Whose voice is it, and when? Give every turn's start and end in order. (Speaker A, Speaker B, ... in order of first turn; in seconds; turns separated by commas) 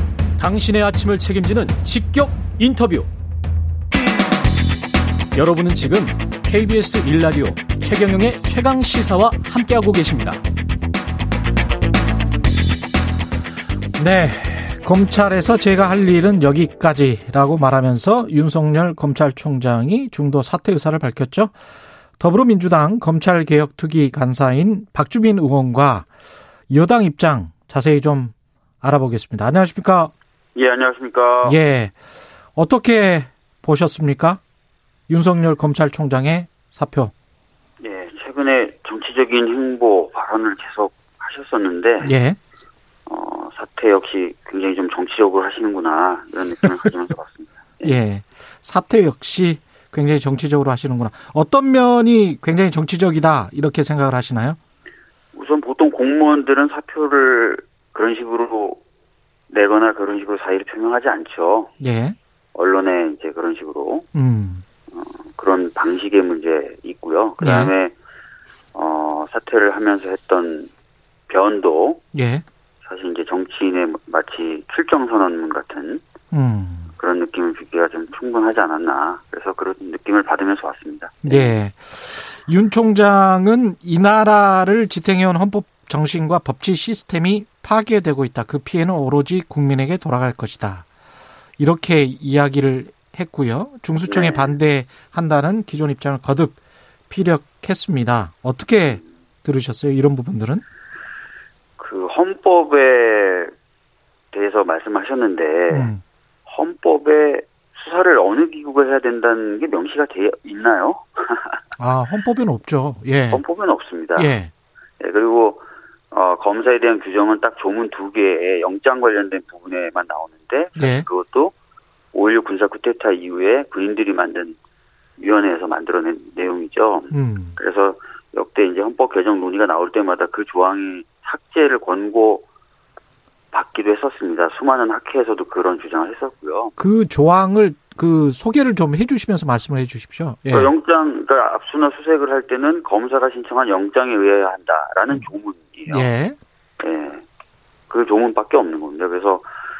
Speaker A: 0.4-3.1, Speaker A: 5.3-10.4, Speaker B: 14.0-21.5, Speaker B: 22.2-26.1, Speaker B: 26.7-30.1, Speaker C: 30.5-31.6, Speaker B: 31.4-32.0, Speaker B: 32.5-34.4, Speaker B: 35.1-37.1, Speaker C: 37.8-42.1, Speaker B: 42.0-42.4, Speaker C: 43.1-48.0, Speaker B: 47.8-54.6, Speaker C: 55.3-58.8, Speaker C: 59.5-61.7, Speaker B: 61.8-62.1, Speaker C: 62.5-64.1, Speaker B: 64.1-64.6, Speaker C: 64.9-67.9, Speaker B: 67.4-67.7, Speaker C: 68.7-70.7, Speaker C: 71.3-72.0, Speaker B: 72.1-72.4, Speaker C: 72.8-76.0, Speaker B: 76.3-76.9, Speaker C: 77.0-81.5, Speaker B: 81.2-90.9, Speaker B: 91.6-96.6, Speaker C: 94.1-94.5, Speaker B: 97.1-100.6, Speaker C: 101.8-103.5, Speaker C: 104.3-105.9, Speaker B: 105.7-106.0, Speaker C: 106.5-111.6, Speaker B: 111.8-113.4, Speaker C: 113.3-114.3, Speaker B: 114.2-114.5, Speaker C: 115.0-121.5, Speaker B: 120.8-121.0, Speaker C: 122.1-124.6, Speaker C: 125.2-132.4, Speaker B: 127.1-127.5, Speaker C: 133.5-136.8, Speaker B: 136.8-140.7, Speaker C: 140.5-146.1, Speaker B: 145.9-146.3, Speaker C: 146.8-147.2, Speaker C: 147.9-149.5